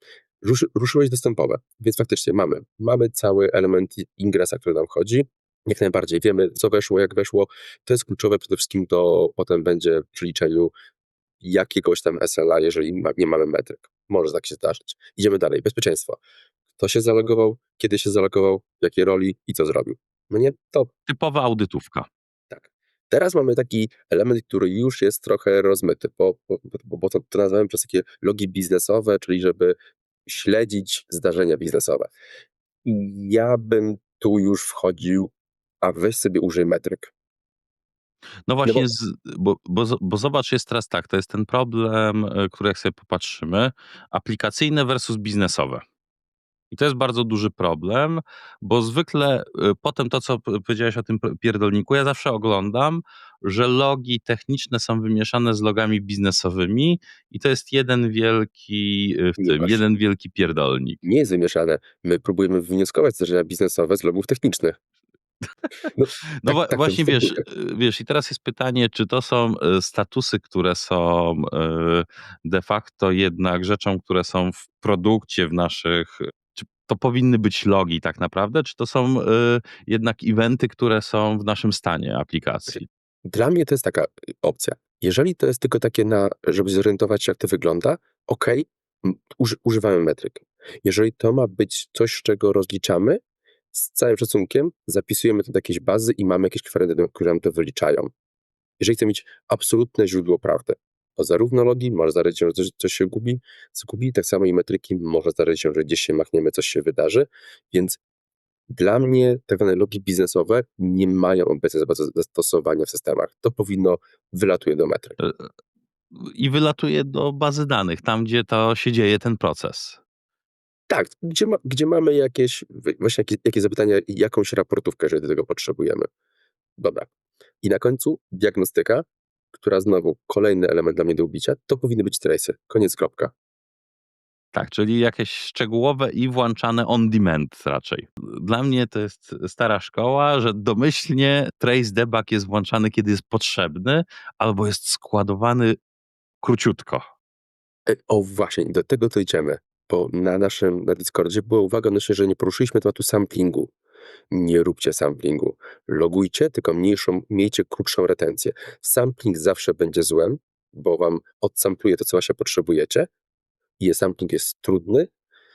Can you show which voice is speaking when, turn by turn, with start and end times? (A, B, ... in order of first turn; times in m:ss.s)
0:00.4-0:10.7 A
0:11.4-0:16.2 A
0:16.8-0:20.9 A
0:21.1-0:22.1 B
0:22.5-0:29.8 A
0:30.3-0:32.1 A
0:32.8-0:37.1 A
0:38.5-0:45.8 B
0:46.7-1:01.0 B
0:59.4-0:59.8 A
1:01.0-1:04.8 A
1:05.9-1:07.4 A
1:06.4-1:22.9 B
1:22.7-1:33.2 A
1:33.7-1:38.1 A
1:38.8-1:48.0 A
1:48.7-1:55.2 A
1:55.2-1:55.5 B
1:56.2-2:00.0 B
2:00.9-2:06.1 A
2:06.8-2:07.1 A
2:07.6-2:13.3 A
2:14.5-2:25.8 B
2:26.4-2:27.1 B
2:27.9-2:33.7 A
2:34.3-2:43.1 A
2:43.8-2:45.1 A